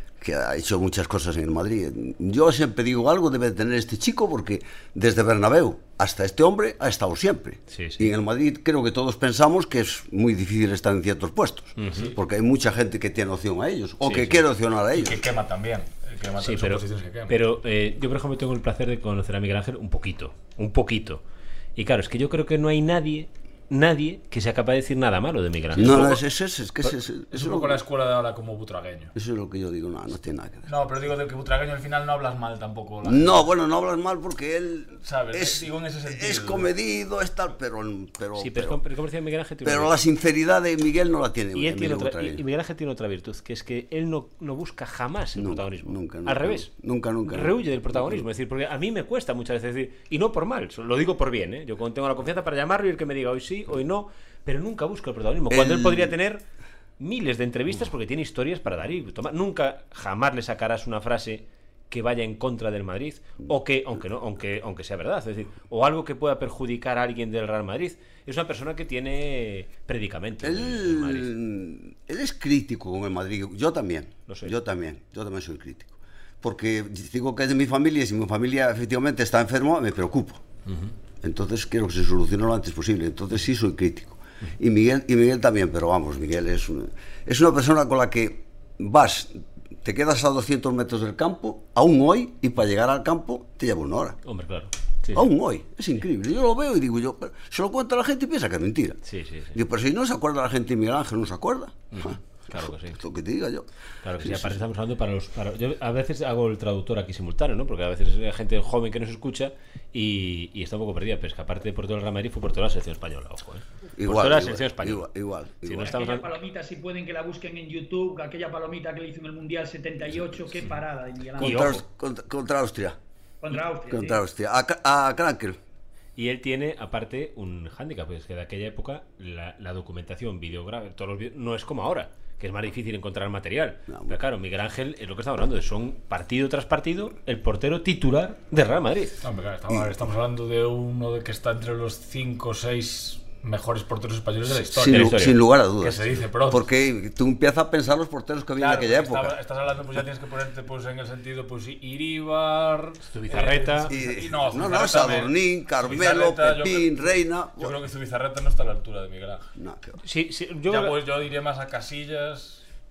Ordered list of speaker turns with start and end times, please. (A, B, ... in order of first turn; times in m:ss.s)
0:00.2-0:15.2 A
0:07.7-0:08.1 B
0:11.8-0:12.1 B
0:14.0-0:14.4 B
0:14.9-0:17.4 C
0:16.4-0:21.2 B
0:21.8-0:26.2 B
0:25.7-0:27.8 A
0:27.3-0:29.1 C
0:29.1-0:30.7 A
0:30.7-0:33.4 C
0:33.0-0:38.8 A
0:35.0-0:36.7 C
0:38.4-0:39.9 B
0:39.6-0:42.4 A
0:41.5-0:46.7 B
0:45.4-0:48.2 A
0:47.2-0:56.4 B
0:55.5-0:56.1 A
0:57.0-1:11.3 B
1:10.4-1:20.4 A
1:14.3-1:14.5 B
1:21.2-1:34.2 A
1:34.2-1:35.3 B
1:35.1-1:39.0 A
1:39.1-1:39.6 B
1:39.5-1:43.6 A
1:41.9-1:43.0 B
1:44.0-1:55.0 B
1:44.2-1:44.6 A
1:54.0-1:55.9 A
1:55.6-1:56.4 B
1:55.8-2:01.8 D
2:01.4-2:01.8 B
2:01.4-2:03.0 A
2:03.4-2:04.2 D
2:03.9-2:05.6 A
2:06.2-2:19.2 B
2:13.9-2:14.2 A
2:19.2-2:26.6 C
2:24.7-2:29.3 A
2:24.8-2:25.4 B
2:28.6-2:39.5 C
2:33.1-2:33.9 B
2:33.9-2:37.7 A
2:39.6-2:40.0 A
2:40.0-2:41.0 B
2:40.7-2:42.6 C